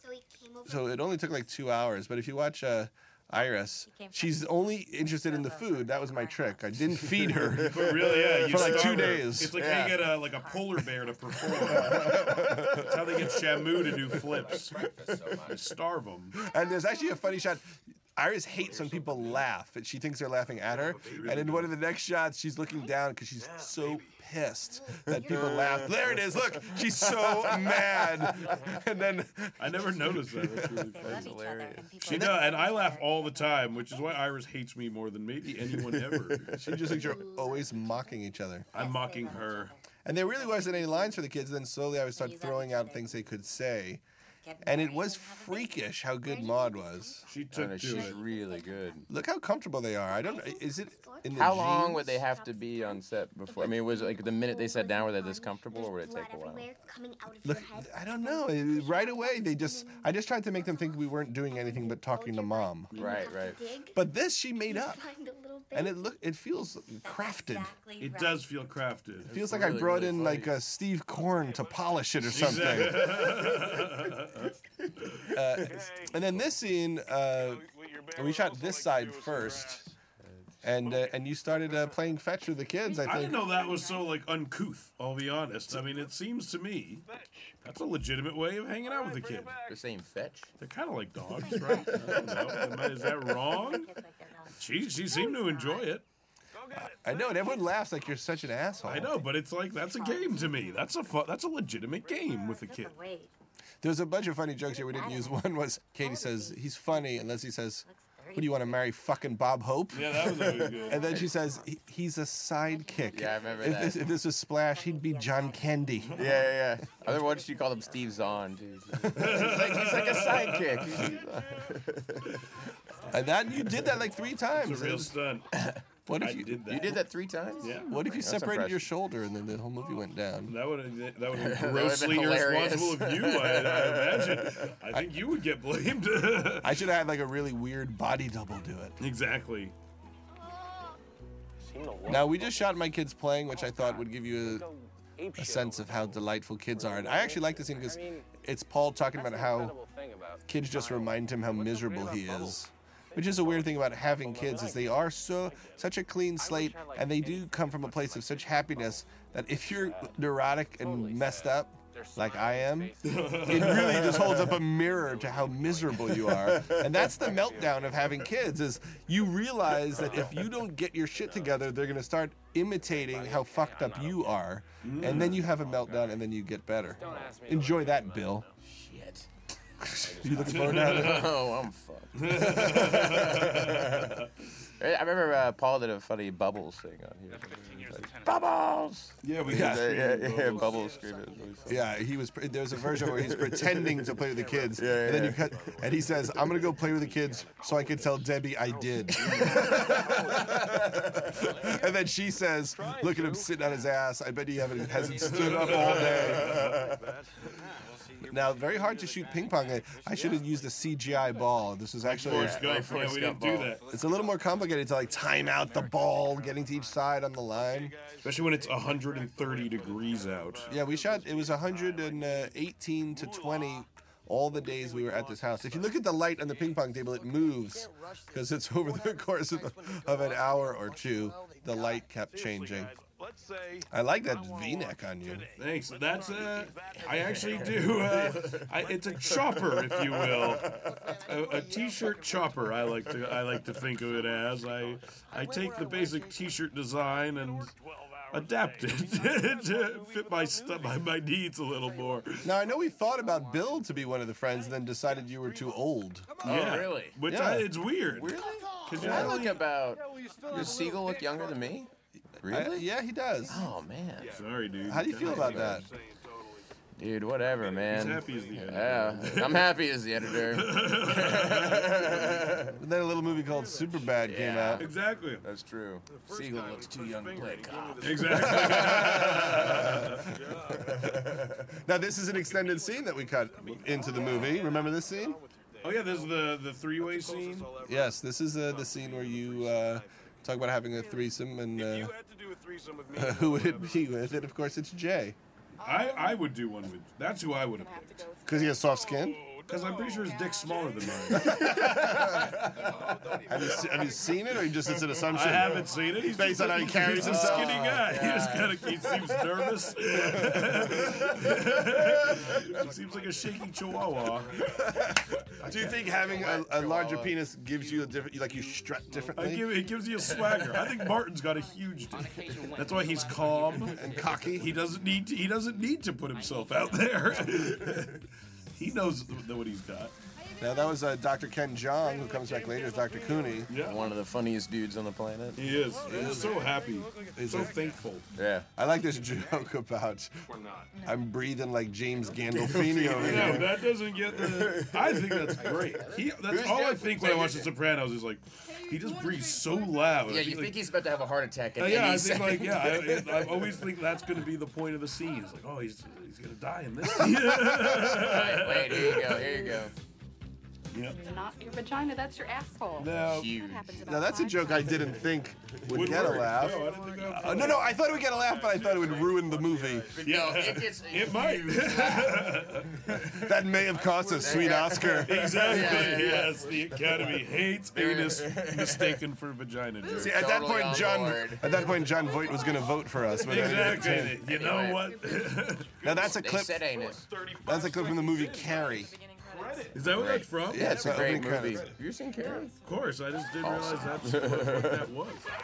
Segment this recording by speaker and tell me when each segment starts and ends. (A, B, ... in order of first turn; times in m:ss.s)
0:00.6-0:09.6 A
0:03.9-0:06.6 B
0:07.6-0:16.4 C
0:08.1-0:10.2 D
0:11.6-0:12.9 A
0:11.7-0:12.2 D
0:14.8-0:15.5 D
0:16.4-0:30.6 A
0:20.9-0:21.7 C
0:25.1-0:26.0 D
0:29.6-0:31.3 C
0:30.9-0:34.0 B
0:31.0-0:31.9 D
0:32.0-0:36.6 C
0:35.8-0:36.7 D
0:36.5-0:38.7 A
0:38.7-0:39.7 C
0:38.7-0:39.8 B
0:40.0-0:44.0 A
0:42.2-0:43.1 B
0:44.4-0:45.6 B
0:44.6-0:47.3 A
0:47.3-0:48.2 C
0:47.5-0:49.1 D
0:49.1-0:52.2 A
0:51.3-0:56.8 D
0:57.4-1:02.9 A
1:02.9-1:03.3 C
1:02.9-1:03.8 D
1:03.9-1:07.7 A
1:07.0-1:08.5 B
1:08.0-1:09.5 C
1:09.3-1:13.3 A
1:09.3-1:10.6 D
1:12.2-1:14.5 C
1:15.3-1:19.9 A
1:20.6-1:23.6 A
1:22.9-1:27.1 C
1:27.6-1:29.6 C
1:29.7-1:30.5 D
1:30.6-1:33.9 C
1:31.4-1:32.2 B
1:33.3-1:35.8 B
1:34.6-1:36.0 C
1:36.7-1:39.2 A
1:38.8-1:43.0 C
1:40.0-1:40.8 B
1:42.4-1:43.3 B
1:43.8-1:56.4 A
1:47.9-1:48.8 B
1:49.9-1:51.3 C
1:50.4-1:51.3 D
1:52.8-1:54.0 B
1:53.1-1:54.1 D
1:54.7-1:55.7 B
1:56.1-2:02.5 D
1:57.1-1:58.0 B
1:59.1-2:01.0 C
2:03.1-2:05.1 A
2:03.9-2:05.5 C
2:05.6-2:05.8 D
2:06.1-2:06.6 A
2:06.1-2:07.0 C
2:06.7-2:08.9 D
2:07.6-2:07.9 C
2:07.8-2:10.6 A
2:10.4-2:16.8 C
2:11.3-2:14.7 D
2:16.6-2:19.0 A
2:19.0-2:19.7 C
2:22.0-2:24.7 A
2:25.4-2:29.8 A
2:30.5-2:58.5 A
2:43.0-2:44.4 C
2:46.4-2:46.8 D
2:54.8-2:55.4 C
2:57.0-2:57.4 D
2:58.6-2:59.3 D
2:59.8-3:01.3 A
3:00.0-3:04.2 D
3:00.4-3:01.4 C
3:02.2-3:04.3 C
3:04.8-3:11.9 D
3:09.2-3:10.9 C
3:09.5-3:09.9 A
3:11.7-3:26.7 A
3:12.8-3:14.1 D
3:14.7-3:16.5 D
3:19.2-3:19.8 C
3:25.3-3:26.8 C
3:26.4-3:26.8 D
3:28.2-3:32.6 A
3:32.0-3:33.8 C
3:32.3-3:33.8 D
3:33.9-3:38.0 A
3:38.2-3:40.7 C
3:40.7-3:53.0 A
3:53.9-3:55.5 A
3:55.6-4:07.7 C
3:57.0-3:58.7 D
4:00.0-4:01.0 D
4:08.3-4:12.4 C
4:12.4-4:16.3 A
4:16.4-4:17.2 D
4:16.4-4:19.6 C
4:17.3-4:17.7 A
4:18.1-4:21.9 D
4:19.0-4:19.4 A
4:22.4-4:22.9 D
4:22.4-4:23.6 A
4:23.5-4:24.4 D
4:24.3-4:25.8 C
4:24.8-4:25.9 A
4:25.2-4:25.8 D
4:27.0-4:32.8 D
4:27.9-4:32.3 C
4:32.8-4:34.9 A
4:34.2-4:40.0 D
4:34.8-4:35.4 C
4:37.2-4:40.2 C
4:38.3-4:45.4 A
4:40.8-4:41.4 D
4:45.8-4:47.7 C
4:47.8-4:52.1 A
4:53.1-4:55.4 A
4:55.8-4:58.3 C
4:55.8-4:56.4 E
4:57.7-4:58.8 E
4:58.4-4:59.4 A
4:59.7-5:02.5 C
5:01.3-5:07.9 A
5:05.2-5:14.6 C
5:07.2-5:09.4 D
5:14.8-5:19.8 A
5:16.0-5:17.4 D
5:19.4-5:30.1 C
5:20.3-5:20.9 D
5:23.8-5:24.8 A
5:30.6-5:33.7 A
5:33.7-5:34.1 C
5:33.7-5:35.6 D
5:35.6-5:38.3 C
5:36.0-5:36.6 A
5:37.4-5:37.8 A
5:38.4-5:38.7 D
5:38.8-5:40.3 A
5:41.0-5:43.7 A
5:42.5-5:43.7 D
5:43.2-5:50.8 C
5:44.4-5:47.7 D
5:48.7-5:50.1 E
5:50.3-5:53.8 D
5:51.8-5:59.8 C
5:57.9-5:59.9 D
6:00.9-6:01.2 C
6:01.1-6:05.1 E
6:03.0-6:03.6 C
6:03.1-6:03.9 D
6:04.0-6:10.1 A
6:05.9-6:08.0 C
6:10.1-6:12.6 D
6:10.2-6:13.3 C
6:13.3-6:16.0 A
6:14.3-6:19.2 D
6:15.2-6:20.4 C
6:20.1-6:21.8 D
6:20.1-6:24.4 A
6:23.4-6:26.0 C
6:24.4-6:25.3 D
6:26.0-6:26.9 A
6:26.1-6:27.3 D
6:27.6-6:29.1 A
6:29.9-6:31.1 C
6:30.0-6:32.7 D
6:30.7-6:31.9 A
6:32.8-6:35.5 C
6:33.6-6:35.1 D